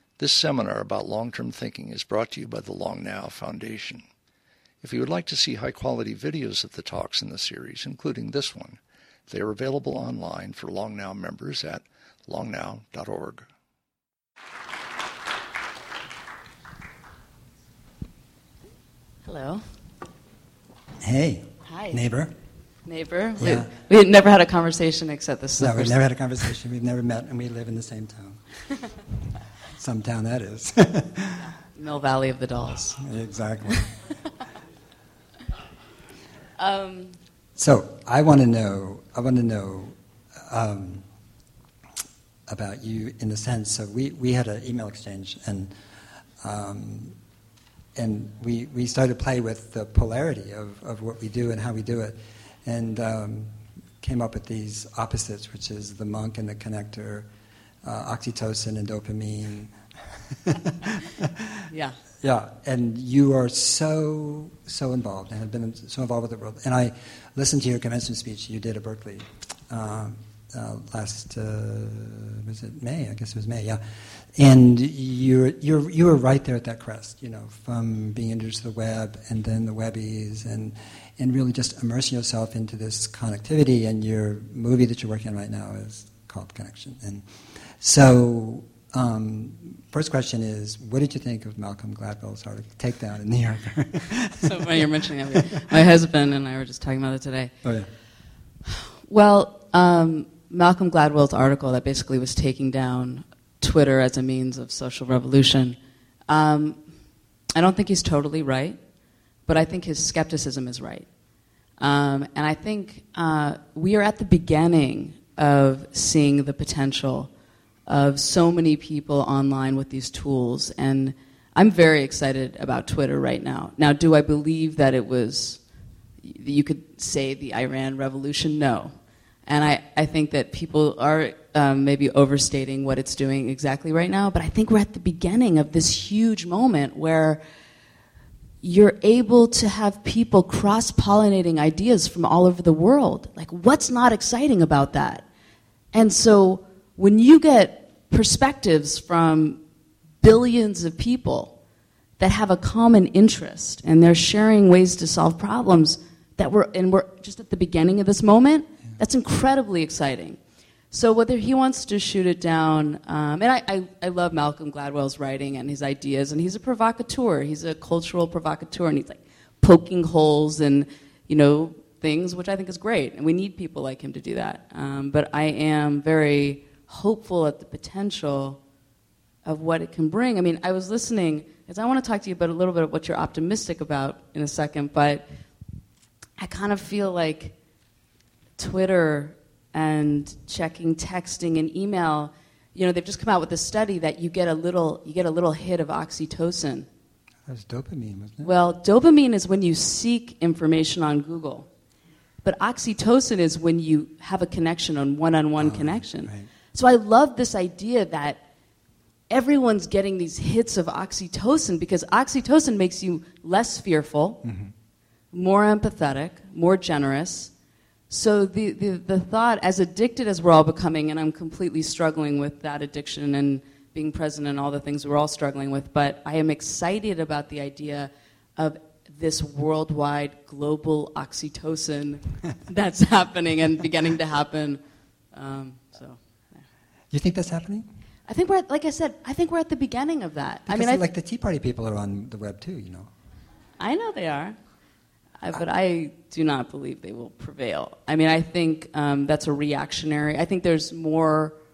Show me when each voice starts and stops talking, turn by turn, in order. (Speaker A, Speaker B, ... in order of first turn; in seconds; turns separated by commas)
Speaker A: 0.2-4.0, Speaker A: 4.8-13.4, Speaker B: 19.2-19.6, Speaker C: 21.0-22.3, Speaker B: 21.6-22.0, Speaker B: 22.8-26.0, Speaker C: 23.4-23.7, Speaker C: 25.6-28.4, Speaker C: 29.7-31.4, Speaker B: 31.4-33.0, Speaker C: 33.0-34.0, Speaker B: 36.6-37.2, Speaker C: 37.5-41.0, Speaker C: 42.5-45.7, Speaker C: 46.4-47.1, Speaker C: 48.0-57.3, Speaker C: 57.8-59.7, Speaker C: 60.4-61.6, Speaker B: 61.7-62.0, Speaker C: 62.2-87.2, Speaker C: 87.8-95.0, Speaker B: 94.3-97.5, Speaker C: 97.6-97.9, Speaker B: 98.7-105.8, Speaker B: 106.3-106.9, Speaker B: 107.5-108.8, Speaker B: 109.4-111.1, Speaker B: 111.8-117.3, Speaker B: 117.8-125.6, Speaker B: 126.2-137.4, Speaker B: 138.6-145.3, Speaker B: 145.9-149.6, Speaker B: 150.2-151.6, Speaker B: 152.2-160.4, Speaker B: 160.9-178.6, Speaker B: 179.4-185.2, Speaker B: 186.4-187.6, Speaker B: 188.6-196.9, Speaker C: 197.4-198.5, Speaker B: 198.4-201.7, Speaker B: 202.4-208.4, Speaker C: 205.6-206.5, Speaker B: 209.3-214.4, Speaker C: 214.4-214.7, Speaker B: 215.3-217.5, Speaker B: 218.1-234.8, Speaker B: 235.3-236.6, Speaker C: 237.1-237.9, Speaker B: 238.3-241.0, Speaker C: 240.7-243.1, Speaker B: 243.8-244.6, Speaker B: 245.4-251.6